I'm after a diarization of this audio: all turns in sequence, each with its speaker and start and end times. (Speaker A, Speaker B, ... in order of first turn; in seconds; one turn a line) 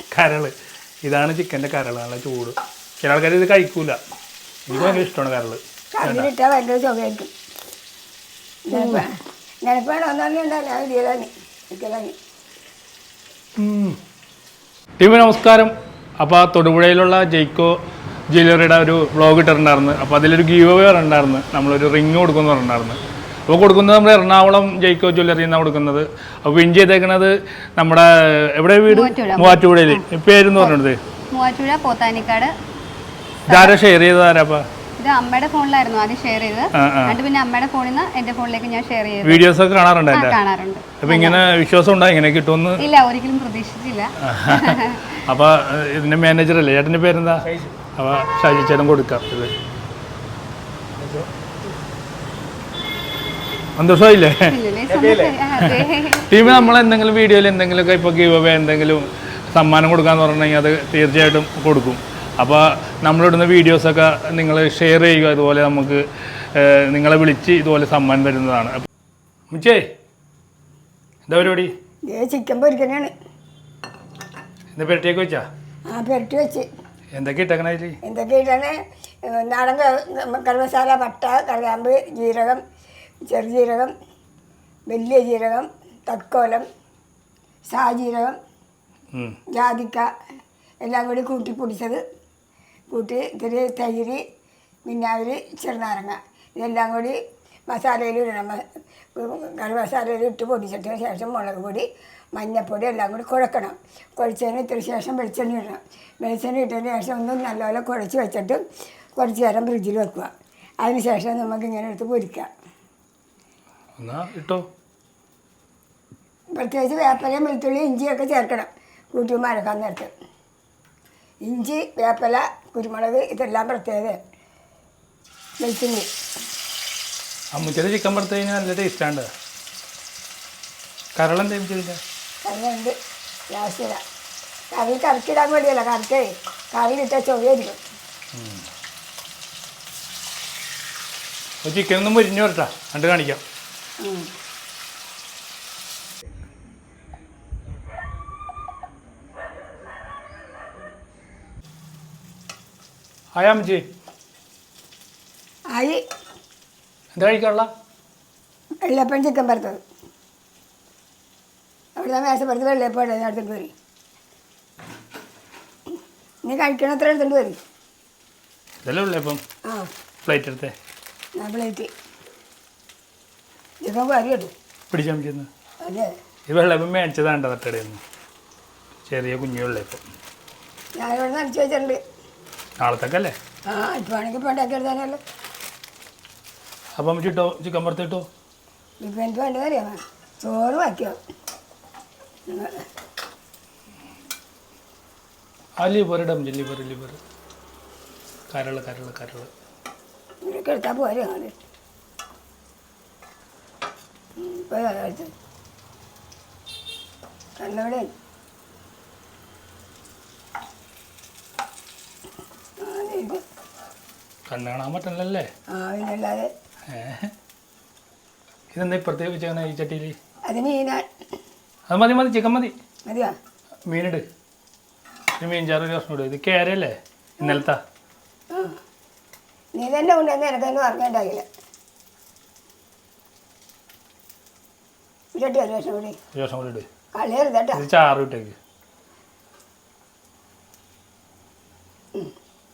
Speaker A: 0.1-0.5
Speaker A: 1.0-4.0
Speaker A: 4.7-6.3
Speaker B: 6.0-7.3
Speaker B: 8.7-9.1
Speaker B: 9.6-12.1
Speaker A: 13.6-14.0
Speaker A: 15.0-17.8
Speaker A: 18.3-31.0
Speaker C: 28.9-30.0
Speaker C: 31.3-32.5
Speaker C: 33.5-33.8
Speaker A: 33.5-34.6
Speaker C: 35.0-39.5
Speaker A: 36.7-37.2
Speaker A: 39.2-40.4
Speaker C: 40.1-41.4
Speaker A: 41.0-42.8
Speaker C: 42.8-45.2
Speaker A: 44.2-47.4
Speaker A: 47.9-49.5
Speaker A: 53.8-54.5
Speaker C: 54.5-56.4
Speaker A: 55.6-68.8
Speaker A: 69.5-69.8
Speaker A: 71.3-71.7
Speaker B: 72.1-73.1
Speaker A: 74.7-75.4
Speaker B: 75.9-76.7
Speaker A: 77.1-78.0
Speaker B: 78.0-78.7
Speaker B: 79.3-82.6
Speaker B: 83.2-83.9
Speaker B: 84.9-86.6
Speaker B: 87.7-88.3
Speaker B: 89.5-90.0
Speaker B: 90.8-92.0
Speaker B: 92.9-94.2
Speaker B: 94.9-97.2
Speaker B: 97.7-98.6
Speaker B: 99.1-108.6
Speaker B: 109.2-110.3
Speaker B: 110.8-112.5
Speaker A: 114.0-114.6
Speaker B: 116.5-120.1
Speaker B: 121.4-124.2
Speaker B: 125.6-126.1
Speaker A: 127.5-129.3
Speaker A: 131.2-132.0
Speaker B: 132.4-132.9
Speaker B: 133.5-134.0
Speaker B: 134.7-137.8
Speaker A: 138.3-138.6
Speaker A: 141.6-143.4
Speaker B: 144.0-144.3
Speaker A: 153.3-153.8
Speaker B: 155.7-156.0
Speaker A: 157.1-157.7
Speaker B: 158.8-159.8
Speaker B: 162.0-163.7
Speaker B: 166.4-167.6
Speaker A: 168.8-169.4
Speaker A: 170.2-170.7
Speaker B: 171.4-171.9
Speaker B: 173.8-174.5
Speaker A: 174.9-175.5
Speaker B: 175.8-176.1
Speaker A: 176.5-178.0
Speaker A: 179.1-180.0
Speaker B: 181.0-182.0
Speaker A: 182.8-183.3
Speaker B: 183.7-185.2
Speaker A: 186.9-188.3
Speaker B: 189.0-191.2
Speaker B: 192.5-192.8
Speaker A: 195.8-197.2
Speaker A: 198.5-199.5
Speaker B: 200.4-201.5
Speaker B: 204.4-205.3
Speaker B: 207.6-208.1
Speaker B: 212.8-213.4
Speaker A: 214.5-215.5
Speaker B: 215.7-216.5
Speaker A: 216.9-217.3
Speaker A: 218.7-220.2
Speaker B: 220.5-221.1
Speaker A: 221.9-222.7
Speaker B: 223.1-223.3
Speaker A: 223.9-224.2
Speaker A: 225.4-227.8
Speaker B: 228.5-228.8
Speaker B: 229.7-231.4
Speaker B: 235.3-236.2
Speaker A: 236.3-236.8
Speaker B: 237.2-237.8
Speaker A: 237.7-238.6